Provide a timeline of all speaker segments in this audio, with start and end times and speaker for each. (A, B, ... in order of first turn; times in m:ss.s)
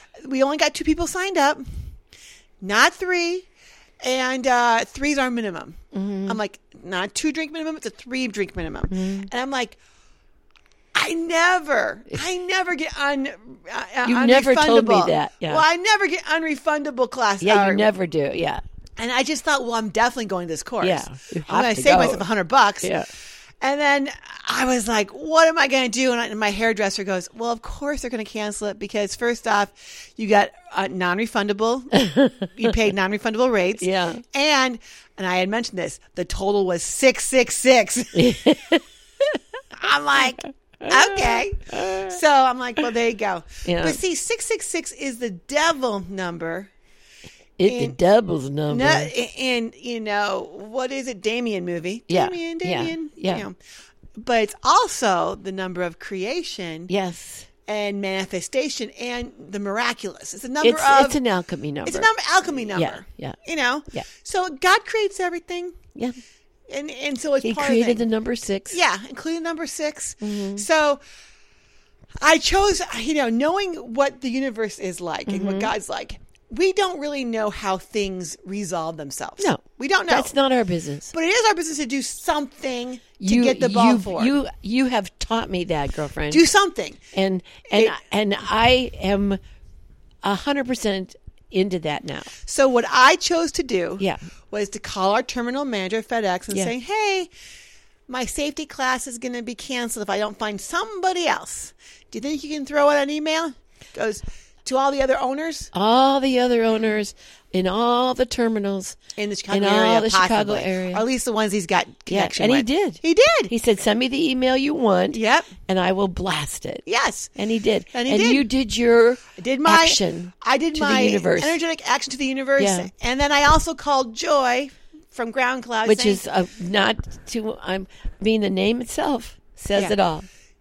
0:00.2-0:01.6 A
0:02.6-0:03.5 A
0:04.0-0:09.8 A
0:05.9-0:06.4 B
0:08.9-0:09.3 B
0:10.9-0:17.8 A
0:14.0-0:15.6 B
0:17.4-0:18.6 B
0:19.0-0:22.9 A
0:20.8-0:22.2 B
0:22.8-0:23.1 B
0:23.6-0:31.9 A
0:31.9-0:32.7 B
0:32.5-0:38.4 A
0:33.8-0:34.2 B
0:38.1-0:39.4 B
0:39.7-0:46.7 A
0:40.8-0:42.2 B
0:43.6-0:44.0 B
0:47.6-0:49.1 B
0:47.6-0:48.0 A
0:48.7-0:53.6 A
0:52.1-0:53.4 B
0:54.2-0:56.9 A
0:56.9-0:57.5 B
0:57.7-1:01.2 A
1:00.6-1:02.1 B
1:01.8-1:05.8 A
1:02.7-1:03.4 B
1:06.7-1:08.0 A
1:07.4-1:08.8 B
1:08.7-1:11.0 A
1:10.2-1:10.6 B
1:12.2-1:20.3 A
1:15.3-1:15.7 B
1:19.4-1:21.1 B
1:21.1-1:24.3 A
1:23.2-1:26.4 B
1:26.3-1:27.0 A
1:27.1-1:29.4 B
1:27.7-1:28.0 A
1:30.2-1:32.3 B
1:32.4-1:37.3 A
1:38.1-1:45.7 A
1:45.7-1:49.0 B
1:49.2-1:53.5 A
1:49.5-1:51.0 B
1:52.1-1:56.8 B
1:55.1-1:55.5 A
1:56.8-1:57.3 A
1:57.4-2:01.6 B
1:57.9-1:58.4 A
1:59.3-2:06.2 A
2:02.6-2:02.9 B
2:05.8-2:10.3 B